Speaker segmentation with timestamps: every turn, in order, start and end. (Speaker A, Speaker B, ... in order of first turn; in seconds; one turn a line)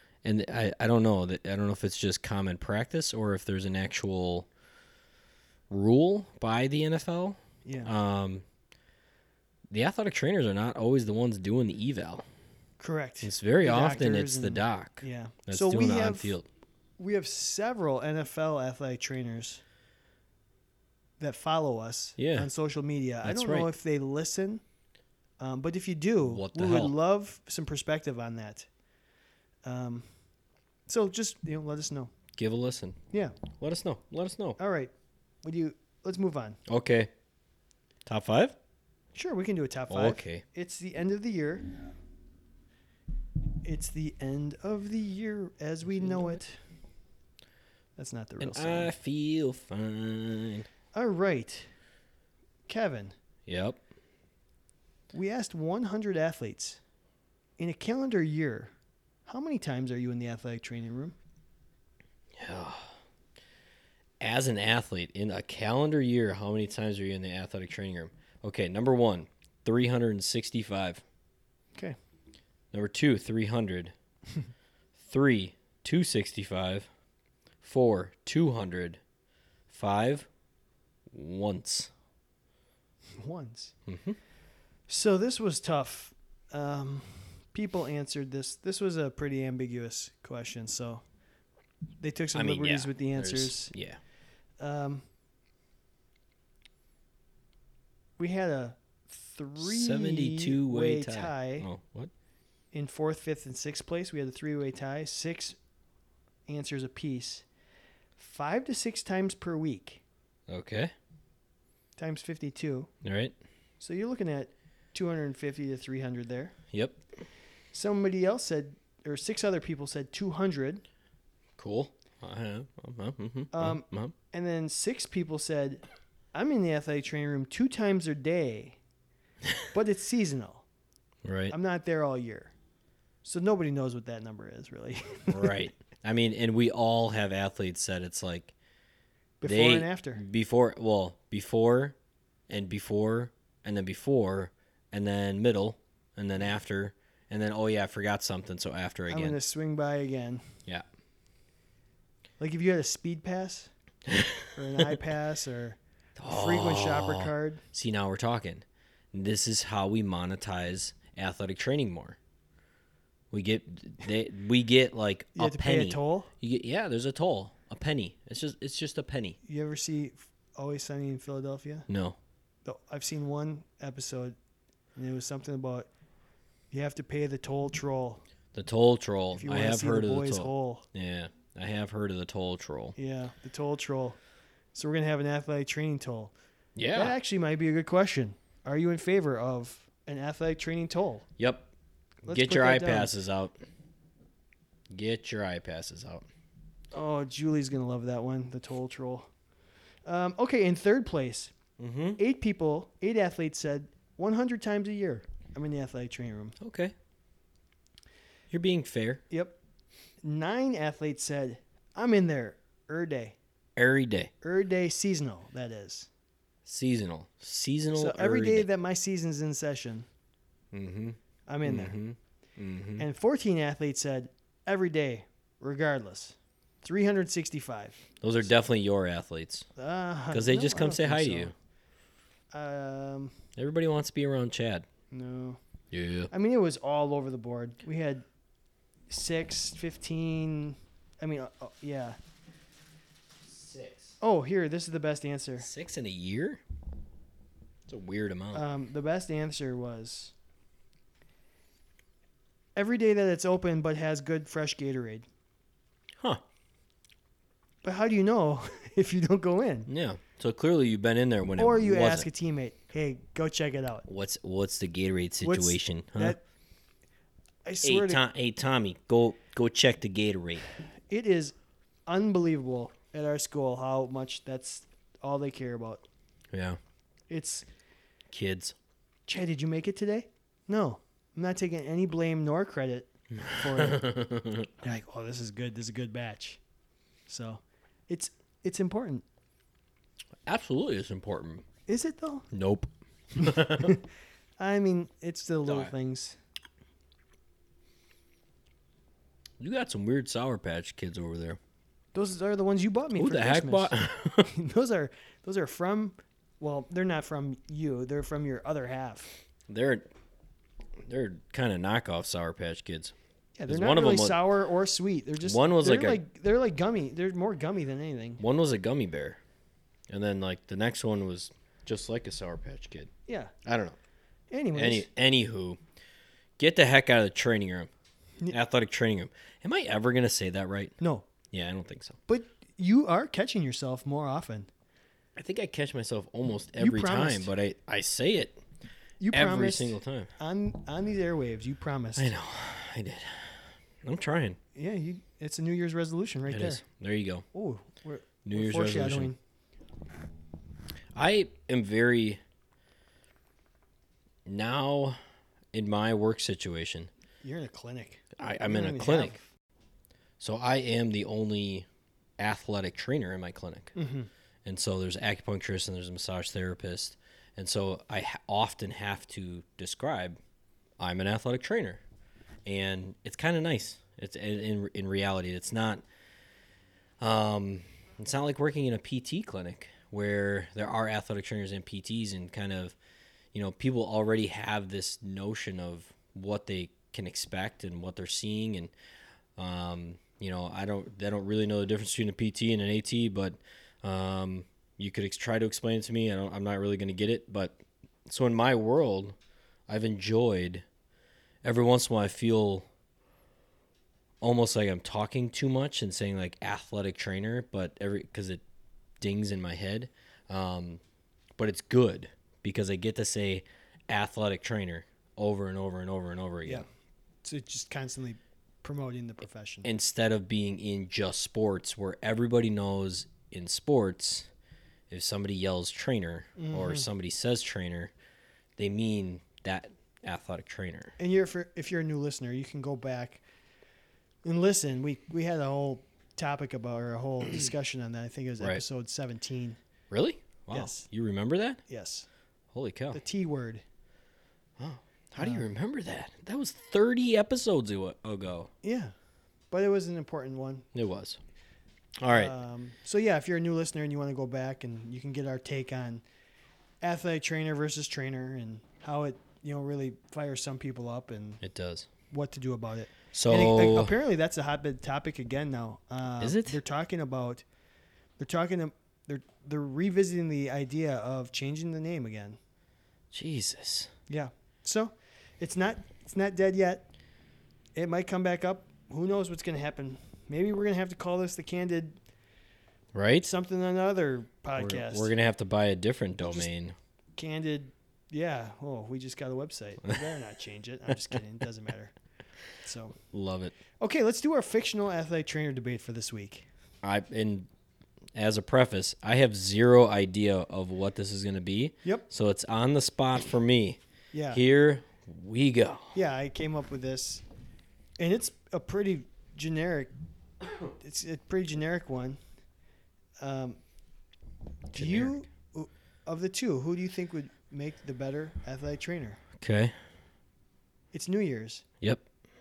Speaker A: 0.2-4.5
Speaker A: 5.7-8.4
Speaker B: 7.6-7.9
Speaker A: 9.7-12.2
Speaker B: 12.8-16.3
Speaker A: 13.2-16.4
Speaker B: 17.0-19.6
Speaker B: 21.2-24.6
Speaker A: 22.2-22.5
Speaker A: 23.2-23.7
Speaker B: 25.4-28.7
Speaker A: 26.2-26.9
Speaker B: 29.6-30.0
Speaker B: 30.9-32.1
Speaker A: 32.3-33.0
Speaker B: 33.1-33.4
Speaker A: 33.5-34.6
Speaker B: 34.6-34.9
Speaker B: 35.4-36.6
Speaker A: 36.7-37.1
Speaker A: 38.0-38.5
Speaker B: 39.1-41.7
Speaker A: 39.9-40.4
Speaker B: 43.6-46.6
Speaker A: 46.0-46.4
Speaker B: 48.0-48.9
Speaker A: 48.4-50.7
Speaker B: 50.9-51.7
Speaker B: 52.7-53.1
Speaker A: 53.5-53.8
Speaker B: 55.1-56.8
Speaker B: 57.6-58.7
Speaker B: 59.2-61.1
Speaker A: 62.4-62.9
Speaker A: 64.2-71.0
Speaker A: 72.7-73.9
Speaker A: 75.0-76.9
Speaker A: 77.6-79.0
Speaker A: 79.7-80.3
Speaker A: 81.1-81.9
Speaker B: 83.2-83.7
Speaker A: 83.8-84.2
Speaker B: 84.9-91.0
Speaker B: 92.0-93.7
Speaker A: 92.3-94.0
Speaker B: 94.6-95.0
Speaker B: 98.2-101.7
Speaker A: 99.6-102.1
Speaker B: 102.7-105.6
Speaker B: 106.5-107.5
Speaker B: 108.2-110.0
Speaker A: 110.5-110.9
Speaker B: 112.0-112.9
Speaker A: 113.0-113.3
Speaker B: 113.8-116.5
Speaker A: 116.7-117.0
Speaker B: 117.7-120.8
Speaker A: 121.6-124.1
Speaker B: 123.5-128.8
Speaker B: 129.7-130.6
Speaker A: 131.2-131.5
Speaker B: 131.5-132.5
Speaker B: 133.2-135.6
Speaker A: 135.3-138.5
Speaker B: 139.4-140.2
Speaker A: 139.4-141.9
Speaker A: 142.5-149.4
Speaker B: 149.1-150.4
Speaker B: 152.4-153.7
Speaker A: 154.1-154.8
Speaker B: 154.5-157.6
Speaker A: 156.2-162.2
Speaker A: 163.3-169.4
Speaker B: 165.3-166.3
Speaker B: 169.4-171.9
Speaker A: 171.9-172.2
Speaker B: 172.6-174.3
Speaker B: 174.9-175.9
Speaker B: 176.7-178.2
Speaker A: 178.5-182.9
Speaker B: 179.3-180.8
Speaker B: 182.9-184.2
Speaker B: 184.7-186.3
Speaker A: 186.8-187.2
Speaker B: 186.9-191.2
Speaker A: 191.4-191.7
Speaker B: 192.2-193.1
Speaker A: 192.2-193.6
Speaker A: 194.9-196.2
Speaker B: 196.9-199.3
Speaker B: 200.1-201.5
Speaker A: 201.8-202.2
Speaker B: 202.2-206.6
Speaker A: 206.6-206.9
Speaker A: 208.5-209.2
Speaker B: 209.3-209.6
Speaker B: 210.2-213.3
Speaker A: 213.8-214.3
Speaker B: 214.4-216.1
Speaker A: 216.6-218.7
Speaker B: 217.9-220.1
Speaker A: 220.7-223.1
Speaker B: 221.5-222.0
Speaker B: 223.0-228.1
Speaker A: 228.2-229.7
Speaker B: 229.8-231.5
Speaker A: 230.3-231.5
Speaker B: 232.5-233.3
Speaker A: 233.6-234.8
Speaker B: 235.1-235.6
Speaker A: 235.9-236.3
Speaker B: 236.3-238.2
Speaker B: 239.1-242.2
Speaker A: 243.4-244.2
Speaker B: 244.2-245.7
Speaker A: 245.6-246.6
Speaker A: 247.9-248.6
Speaker B: 248.5-250.3
Speaker B: 252.8-255.2
Speaker B: 257.8-259.9
Speaker A: 259.9-262.3
Speaker B: 261.6-264.1
Speaker A: 264.1-266.4
Speaker B: 265.4-266.4
Speaker B: 267.6-268.2
Speaker A: 267.8-270.7
Speaker B: 271.1-271.5
Speaker B: 272.1-276.0
Speaker A: 276.5-276.8
Speaker B: 277.3-277.6
Speaker A: 278.3-278.7
Speaker B: 279.3-284.1
Speaker A: 283.4-284.7
Speaker B: 284.8-286.6
Speaker B: 287.3-289.2
Speaker A: 290.4-291.6
Speaker B: 291.9-292.5
Speaker A: 292.5-294.0
Speaker B: 293.4-294.1
Speaker B: 294.6-296.4
Speaker A: 295.6-295.9
Speaker A: 299.6-301.6
Speaker B: 302.1-309.3
Speaker A: 303.1-304.5
Speaker A: 309.7-310.1
Speaker A: 311.0-313.1
Speaker B: 313.6-318.4
Speaker A: 313.7-314.5
Speaker A: 315.4-316.2
Speaker A: 318.4-319.4
Speaker A: 320.1-323.1
Speaker B: 323.3-323.5
Speaker A: 323.6-324.0
Speaker B: 324.5-325.1
Speaker A: 324.7-325.8
Speaker A: 326.6-327.9
Speaker A: 328.5-330.9
Speaker B: 331.0-331.3
Speaker A: 331.5-332.2
Speaker B: 332.3-334.7
Speaker A: 335.4-338.6
Speaker B: 336.8-337.5
Speaker B: 339.2-342.3
Speaker A: 339.3-340.3
Speaker A: 342.1-344.6
Speaker B: 344.7-346.8
Speaker A: 346.5-347.4
Speaker B: 347.5-349.4
Speaker A: 348.4-349.3
Speaker A: 351.1-352.4
Speaker A: 354.4-355.2
Speaker A: 355.7-357.1
Speaker B: 357.4-359.4
Speaker A: 358.4-359.4
Speaker A: 360.4-361.9
Speaker A: 362.4-363.9
Speaker B: 363.9-364.3
Speaker A: 364.6-370.4
Speaker A: 371.0-372.0
Speaker A: 372.6-376.0
Speaker A: 377.2-382.9
Speaker A: 383.5-388.9
Speaker A: 389.6-399.4
Speaker A: 399.9-400.8
Speaker A: 401.6-402.9
Speaker A: 404.4-408.6
Speaker A: 409.2-411.0
Speaker A: 411.6-416.8
Speaker B: 417.4-419.9
Speaker A: 419.8-424.5
Speaker A: 425.1-428.1
Speaker B: 426.6-427.1
Speaker A: 428.8-431.1
Speaker B: 431.2-433.4
Speaker B: 434.4-439.8
Speaker A: 440.1-441.8
Speaker B: 440.7-441.1
Speaker B: 441.9-442.3
Speaker A: 442.7-443.2
Speaker B: 443.1-443.8
Speaker A: 444.8-448.7
Speaker B: 445.4-445.7
Speaker B: 448.8-449.1
Speaker B: 449.7-450.9
Speaker A: 450.9-451.4
Speaker A: 452.2-452.5
Speaker B: 452.3-456.2
Speaker B: 457.0-461.6
Speaker A: 461.6-462.1
Speaker B: 462.3-467.6
Speaker A: 463.3-464.1
Speaker A: 466.4-466.8
Speaker B: 468.4-472.6
Speaker A: 473.3-474.1
Speaker B: 474.3-477.1
Speaker B: 477.9-482.2
Speaker A: 483.1-483.5
Speaker B: 483.4-485.3
Speaker A: 484.8-486.9
Speaker B: 486.4-486.7
Speaker B: 487.4-492.1
Speaker B: 492.8-493.1
Speaker A: 493.3-493.7
Speaker B: 494.0-496.7
Speaker A: 497.0-497.7
Speaker A: 498.3-504.0
Speaker B: 504.3-504.6
Speaker A: 504.5-506.1
Speaker B: 506.1-507.4
Speaker B: 508.2-510.1
Speaker B: 511.0-512.4
Speaker B: 513.4-513.8
Speaker B: 514.9-519.4
Speaker A: 514.9-515.4
Speaker A: 519.6-519.9
Speaker B: 521.1-521.8